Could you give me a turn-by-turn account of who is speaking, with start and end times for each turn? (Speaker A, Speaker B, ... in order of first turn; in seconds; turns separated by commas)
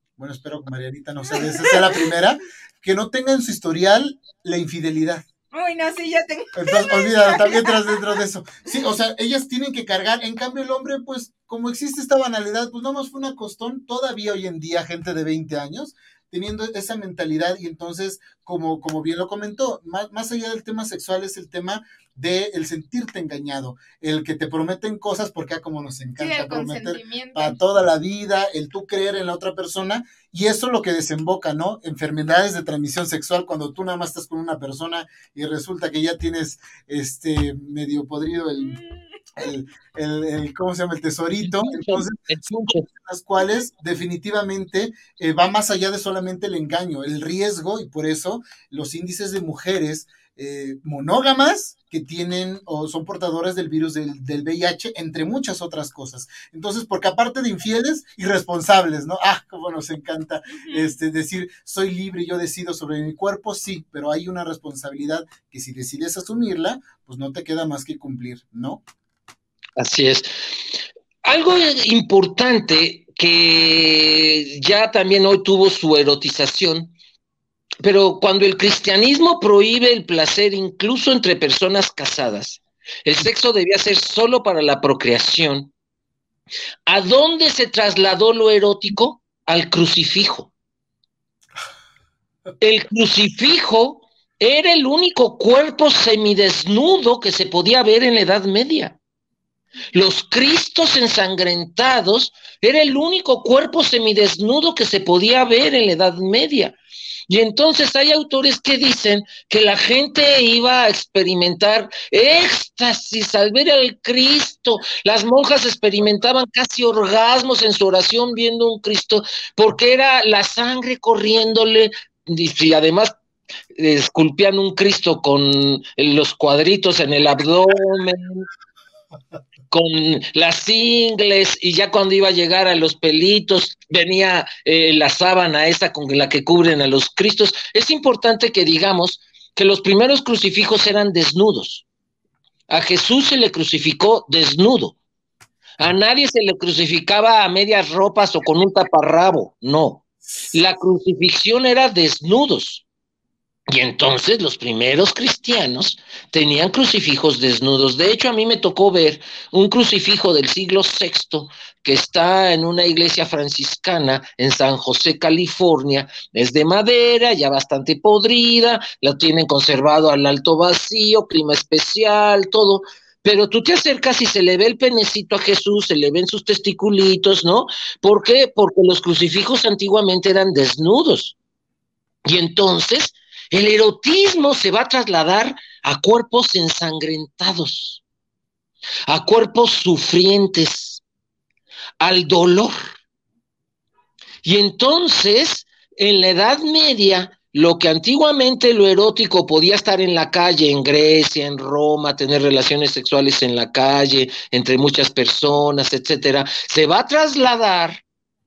Speaker A: 0.2-5.2, Speaker B: 1.3-2.1, Speaker B: 5.5-8.2, Speaker A: 6.5-38.8, Speaker B: 26.2-27.6, Speaker B: 38.6-39.0, Speaker A: 39.4-68.8, Speaker C: 41.4-42.9, Speaker B: 60.6-61.0, Speaker C: 69.8-70.3, Speaker C: 71.2-76.9, Speaker C: 77.8-85.7, Speaker C: 86.8-90.5, Speaker C: 92.6-99.0, Speaker C: 99.9-106.8, Speaker C: 107.3-123.1, Speaker C: 123.7-128.5, Speaker C: 129.7-141.8, Speaker C: 142.7-144.9, Speaker C: 145.8-152.8, Speaker A: 150.3-150.6, Speaker C: 153.7-181.3, Speaker C: 182.2-188.0, Speaker C: 189.1-191.0, Speaker C: 192.0-192.8, Speaker C: 194.4-208.0